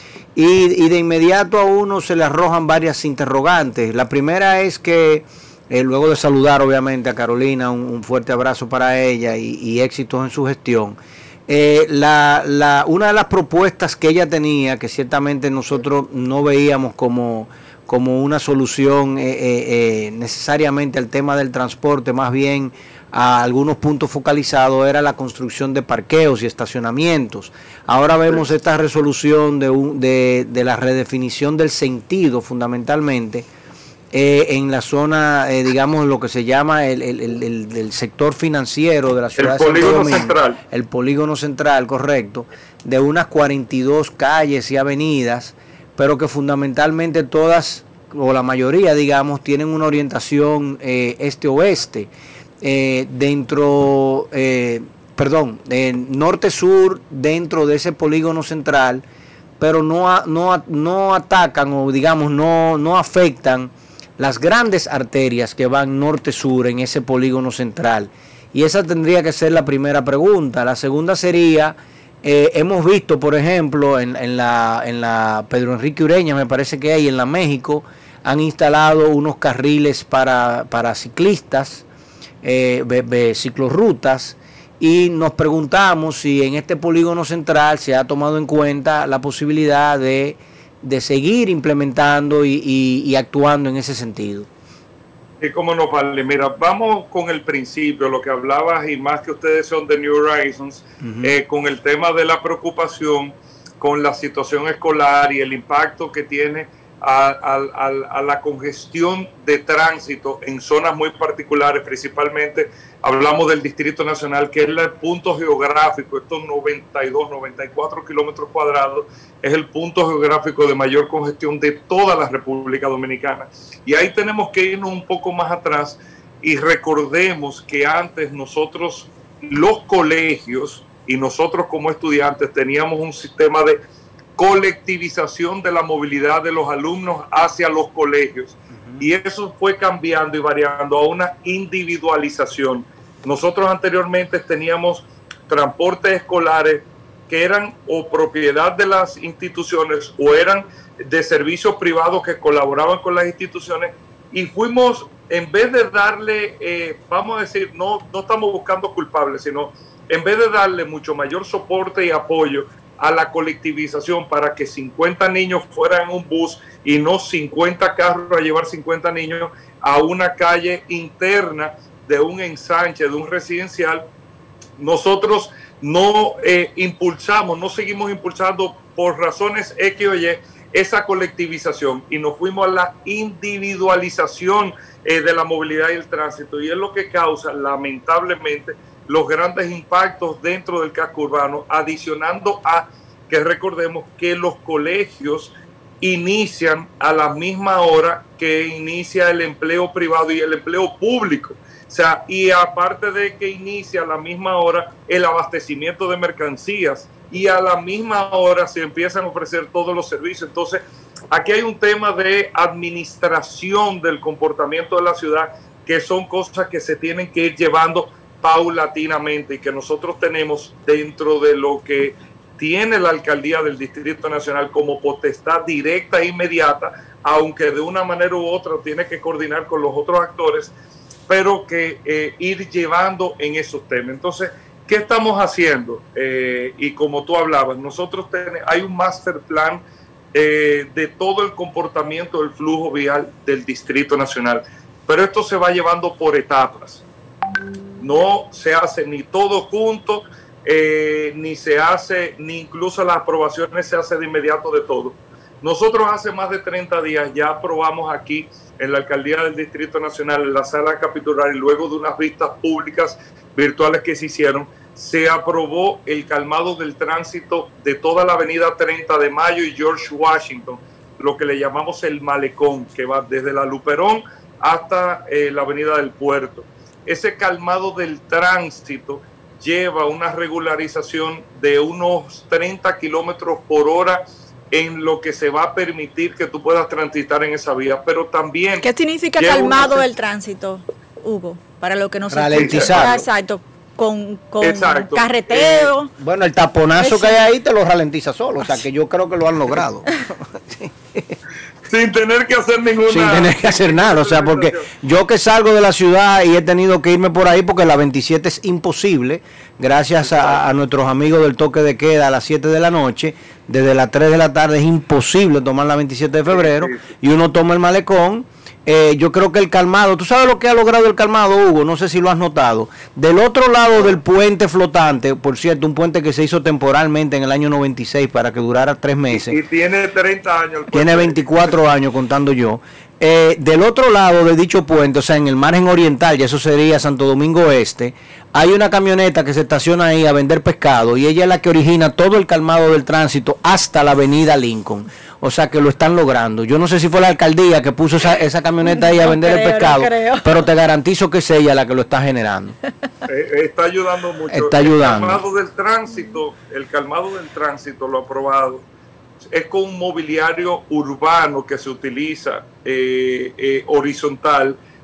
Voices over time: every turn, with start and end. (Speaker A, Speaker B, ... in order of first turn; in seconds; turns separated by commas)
Speaker A: 0.3-33.5, Speaker A: 34.1-52.1, Speaker B: 39.4-40.6, Speaker A: 52.6-59.0, Speaker A: 59.6-81.8, Speaker A: 82.4-94.5, Speaker B: 95.4-133.8, Speaker A: 101.0-101.3, Speaker B: 134.4-174.0, Speaker B: 174.8-210.8, Speaker B: 211.3-230.7, Speaker B: 231.3-239.8, Speaker B: 240.3-247.0, Speaker B: 248.0-290.1, Speaker C: 288.8-296.1, Speaker A: 292.3-293.2, Speaker B: 292.5-293.1, Speaker B: 294.6-295.9, Speaker A: 296.2-301.4, Speaker C: 296.9-297.4, Speaker B: 301.9-304.9, Speaker A: 303.1-329.6, Speaker B: 310.2-310.6, Speaker B: 316.5-317.1, Speaker B: 329.3-331.7, Speaker A: 330.9-352.8, Speaker C: 348.8-350.6, Speaker B: 353.3-358.8, Speaker A: 354.5-355.4, Speaker B: 359.5-364.8